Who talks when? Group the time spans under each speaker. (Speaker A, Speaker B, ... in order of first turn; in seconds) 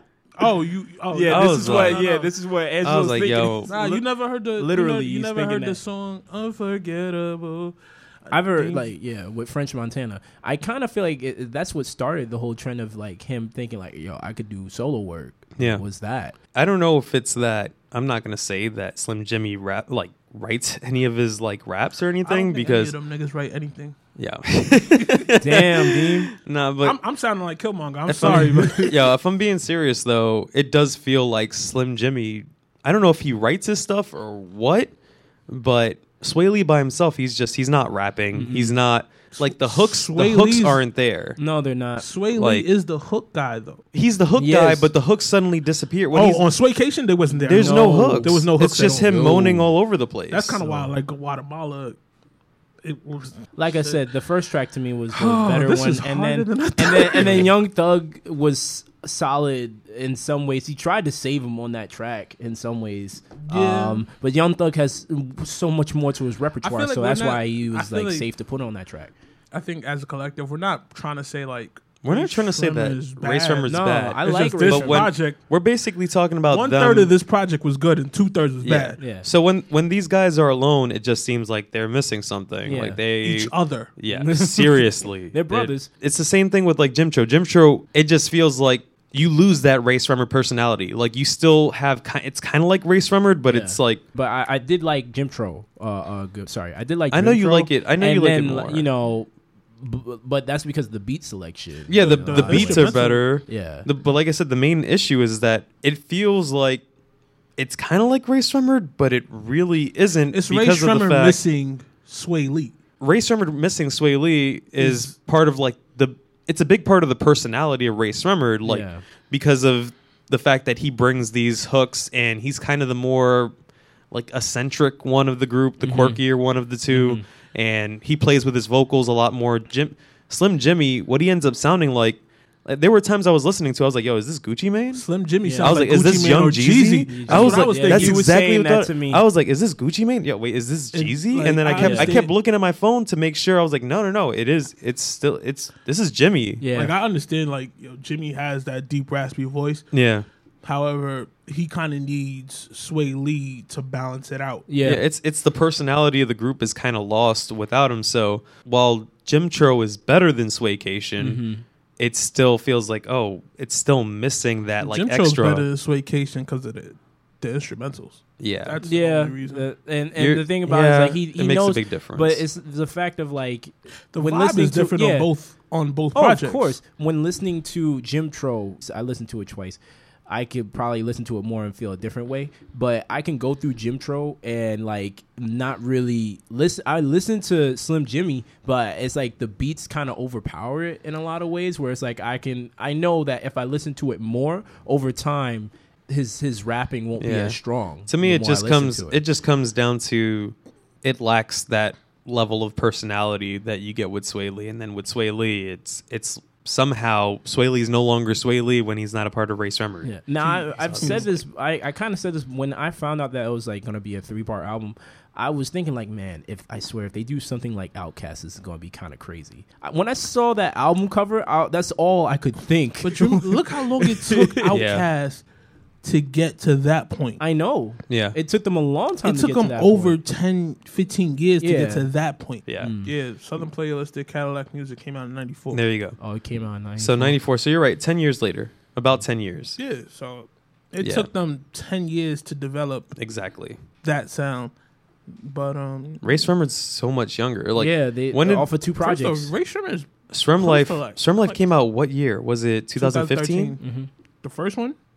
Speaker A: 0.4-2.3, 3.7-8.9, 22.2-24.0, 26.8-29.1, 39.3-40.8, 42.0-43.8, 46.1-49.6, 50.3-52.0, 52.8-54.0, 55.1-57.5, 63.5-64.0, 66.6-68.3, 69.5-75.4, 76.5-79.0, 83.2-83.9, 102.0-103.3, 110.3-112.8, 114.8-115.1, 134.9-138.3, 140.9-142.3, 146.7-149.8, 150.6-154.7, 164.8-169.7, 174.1-176.8, 211.0-211.3, 223.0-225.5, 226.0-227.4, 229.2-235.8, 239.8-243.2, 244.0-244.7, 245.3-246.4, 249.0-251.6, 253.0-253.8, 254.4-255.0
Speaker B: 1.1-5.8, 8.3-16.4, 25.4-26.3, 38.3-38.8, 41.4-42.1, 44.4-44.9, 47.5-48.4, 49.1-49.4, 50.6-51.0, 53.6-69.1, 73.7-75.1, 79.0-79.3, 82.7-83.0, 84.1-85.9, 93.5-102.9, 103.5-103.9, 118.7-119.0, 125.8-126.2, 126.9-127.2, 135.4-135.8, 137.1-139.2, 141.4-142.2, 146.6-146.9, 154.7-155.1, 161.2-161.7, 168.8-175.3, 176.1-199.2, 210.0-224.8, 227.4-230.2, 231.6-232.1, 232.8-233.1, 236.2-237.4, 247.8-249.5, 253.8-254.1
Speaker C: 1.3-2.1, 2.8-3.7, 15.6-15.8, 16.5-23.0, 24.2-27.0, 28.1-34.9, 35.5-41.4, 42.4-42.7, 43.9-46.4, 47.4-50.6, 57.2-57.5, 72.0-77.1, 78.6-94.0, 97.1-98.9, 101.9-106.8, 107.6-111.4, 113.0-123.5, 124.1-135.1, 135.6-146.6, 149.9-150.3, 154.8-161.4, 162.0-165.7, 168.4-168.8, 170.2-172.4, 197.2-211.3, 224.7-225.1, 228.1-228.4, 232.7-232.9, 235.7-236.2, 237.0-239.8, 241.0-241.3, 243.2-243.8, 246.2-248.7, 250.3-253.8